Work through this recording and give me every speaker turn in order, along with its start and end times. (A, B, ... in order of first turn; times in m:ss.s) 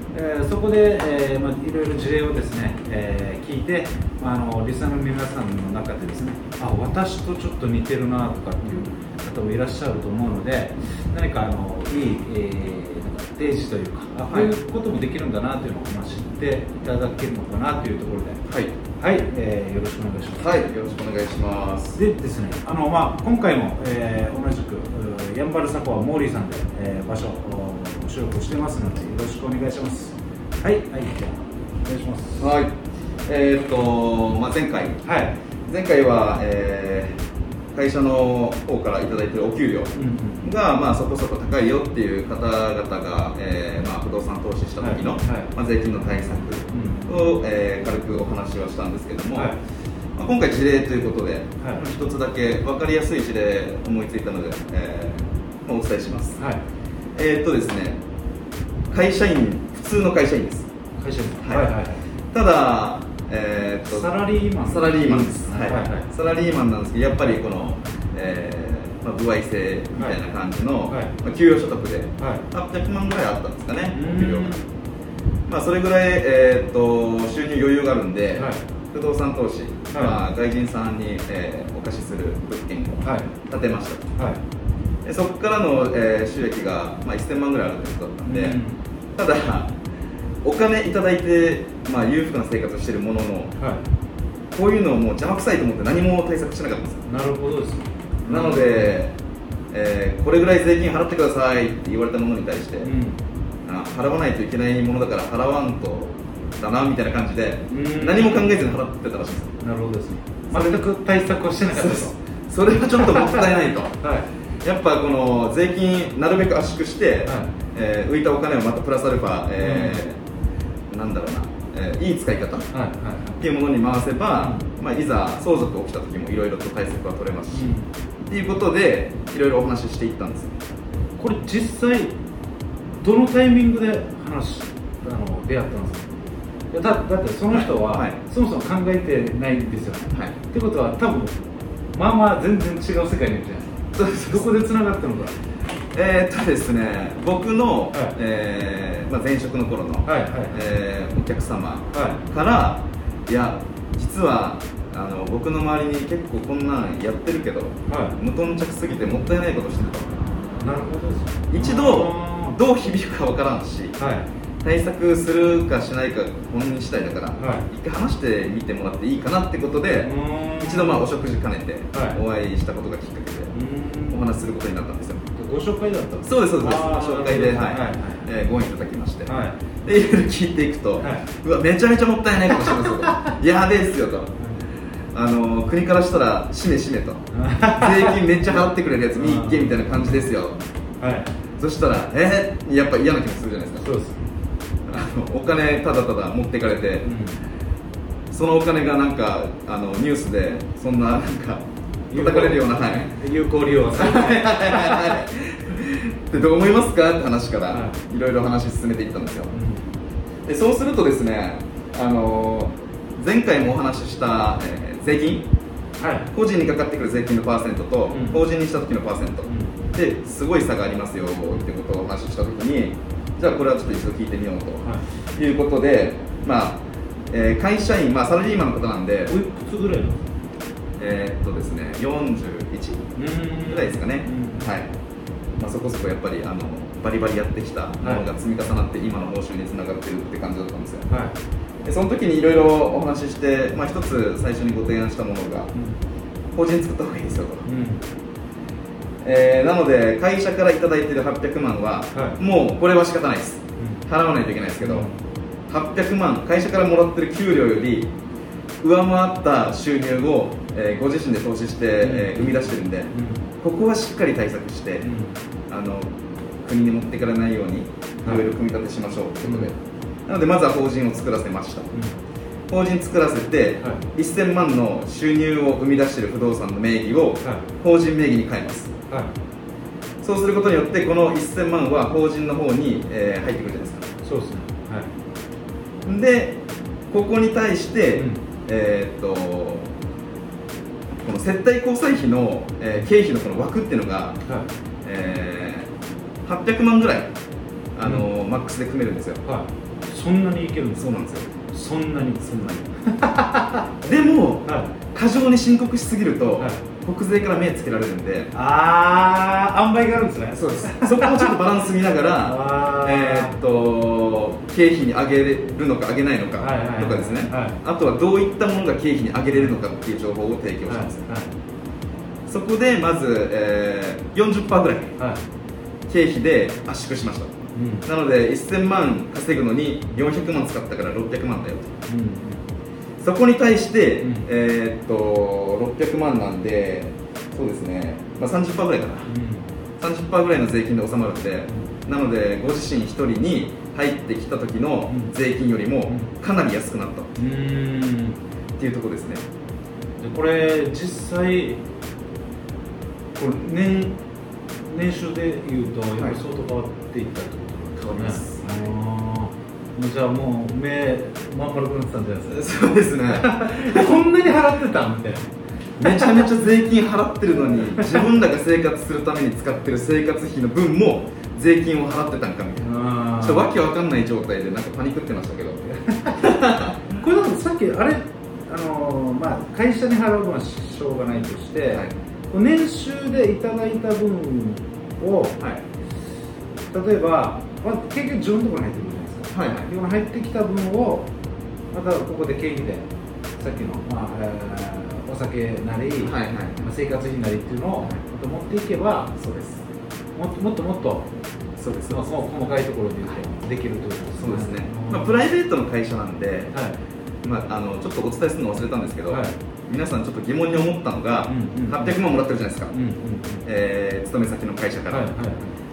0:00.1-0:18.4 A
0:08.6-0:08.9 B
0:14.3-0:14.5 B
0:18.4-0:18.7 B
0:19.0-0:20.5 A
0:20.4-0:22.0 B
0:21.9-0:32.5 A
0:32.4-0:32.7 B
0:33.3-0:35.0 B
0:35.0-0:35.3 A
0:35.7-0:37.2 B
0:37.7-0:39.9 B
0:39.9-0:40.5 A
0:40.4-0:49.5 B
0:44.8-0:45.5 A
0:46.7-0:47.1 A
0:50.2-0:56.4 B
0:56.4-0:56.6 A
0:57.2-0:58.0 B
0:58.9-1:00.7 B
1:01.0-1:02.0 A
1:01.4-1:01.7 B
1:02.3-1:04.1 B
1:03.9-1:06.1 A
1:04.6-1:14.6 B
1:10.9-1:11.1 A
1:12.2-1:12.4 A
1:13.9-1:14.7 A
1:15.5-1:24.0 B
1:18.3-1:18.6 A
1:19.9-1:20.2 A
1:23.0-1:23.3 A
1:24.2-1:24.4 A
1:25.0-1:28.6 B
1:28.2-1:28.8 A
1:29.1-1:29.7 B
1:30.4-1:33.5 B
1:33.6-1:33.8 A
1:34.5-1:37.0 B
1:37.0-1:38.9 A
1:38.3-1:39.1 B
1:39.7-1:42.9 B
1:42.8-1:43.2 A
1:43.6-1:49.5 B
1:47.7-1:48.6 A
1:49.6-1:52.2 A
1:50.5-1:50.8 B
1:51.7-1:54.0 B
1:53.0-1:53.4 A
1:54.0-1:54.2 A
1:54.6-2:00.2 B
1:57.2-1:57.5 A
1:59.6-2:00.0 A
2:00.9-2:02.7 B
2:02.7-2:03.4 A
2:03.4-2:07.7 B
2:04.4-2:04.6 A
2:07.5-2:07.9 A
2:08.3-2:10.5 B
2:11.2-2:12.1 A
2:13.0-2:16.2 A
2:16.7-2:21.4 A
2:17.5-2:18.2 B
2:20.1-2:20.4 B
2:21.9-2:23.7 A
2:23.9-2:24.5 B
2:24.2-2:25.3 A
2:25.9-2:40.1 B
2:30.0-2:30.6 A
2:31.9-2:32.2 A
2:37.9-2:38.2 A
2:40.6-2:42.5 A
2:41.5-2:44.0 B
2:44.0-2:44.3 A
2:44.6-2:50.1 B
2:47.4-2:47.6 A
2:50.0-2:51.0 A
2:50.6-2:53.5 B
2:51.9-2:52.2 A
2:53.5-2:54.2 A
2:54.1-2:55.2 B
2:55.4-2:58.2 A
2:56.2-3:04.3 B
2:59.2-2:59.6 A
3:01.0-3:01.3 A
3:02.5-3:03.3 A
3:05.1-3:07.2 B
3:07.3-3:08.2 A
3:07.8-3:10.6 B
3:09.2-3:10.2 A
3:11.0-3:11.3 A
3:11.6-3:13.9 B
3:13.8-3:14.2 A
3:14.9-3:17.0 B
3:17.0-3:17.4 A
3:18.3-3:23.1 B
3:22.1-3:25.2 A
3:23.9-3:29.5 B
3:27.7-3:28.0 A
3:29.5-3:29.8 A
3:30.4-3:35.5 B
3:36.0-3:36.3 A
3:36.3-3:44.8 B
3:38.1-3:38.4 A
3:39.4-3:39.9 A
3:45.4-3:49.3 B
3:49.3-3:50.2 A
3:51.0-3:53.1 B
3:53.2-3:54.7 A
3:53.7-3:54.9 B
3:55.6-4:01.1 B
4:01.1-4:01.3 A
4:01.8-4:05.7 B
4:05.7-4:06.0 A
4:06.5-4:07.6 B
4:07.6-4:08.0 A
4:09.2-4:15.1 B
4:12.1-4:12.4 A
4:13.8-4:14.0 A
4:14.8-4:15.2 A
4:15.7-4:18.1 B
4:18.8-4:25.1 B
4:22.0-4:23.4 A
4:25.0-4:25.4 A
4:25.7-4:31.9 B
4:29.4-4:29.7 A
4:31.9-4:32.2 A
4:32.7-4:38.9 B
4:39.1-4:39.3 A
4:40.2-4:44.1 B
4:44.2-4:45.1 A
4:46.0-4:49.9 B
4:48.1-4:48.4 A
4:51.2-4:54.4 B
4:55.0-4:55.9 B
4:56.4-4:57.3 B
4:57.9-4:59.4 B
4:58.0-4:58.3 A
4:59.4-5:03.8 A
5:01.0-5:01.5 B
5:02.4-5:02.8 B
5:04.0-5:08.5 B
5:04.6-5:05.0 A
5:08.5-5:11.5 A
5:10.5-5:21.3 B
5:12.4-5:13.6 A
5:16.6-5:17.8 A
5:20.9-5:21.5 A
5:22.5-5:25.1 B
5:25.2-5:25.4 A
5:26.1-5:27.5 B
5:27.7-5:28.0 A
5:28.0-5:31.9 B
5:32.0-5:32.6 A
5:33.2-5:39.3 B
5:34.2-5:34.5 A
5:39.2-5:39.6 A
5:40.0-5:47.3 B
5:46.0-5:46.3 A
5:47.4-5:48.4 A
5:48.8-5:49.4 B
5:50.2-5:51.8 A
5:53.3-5:54.2 A
5:54.9-6:02.6 A
5:58.0-5:58.6 B
6:02.5-6:04.1 B
6:03.3-6:05.5 A
6:06.0-6:17.0 B
6:06.0-6:06.5 A
6:07.7-6:08.3 A
6:12.8-6:13.7 A
6:16.1-6:16.4 A
6:17.1-6:25.6 A
6:25.6-6:25.8 B
6:26.9-6:31.3 A
6:29.5-6:29.9 B
6:31.9-6:33.1 A
6:33.6-6:39.3 A
6:36.2-6:36.9 B
6:39.4-6:39.8 B
6:40.3-6:41.3 A
6:41.8-6:42.7 B
6:42.1-6:45.3 A
6:44.4-6:46.7 B
6:46.7-6:47.0 A
6:47.4-6:52.9 B
6:49.3-6:49.5 A
6:51.4-6:52.2 A
6:52.9-6:53.6 A
6:53.6-6:55.3 B
6:55.1-6:55.7 A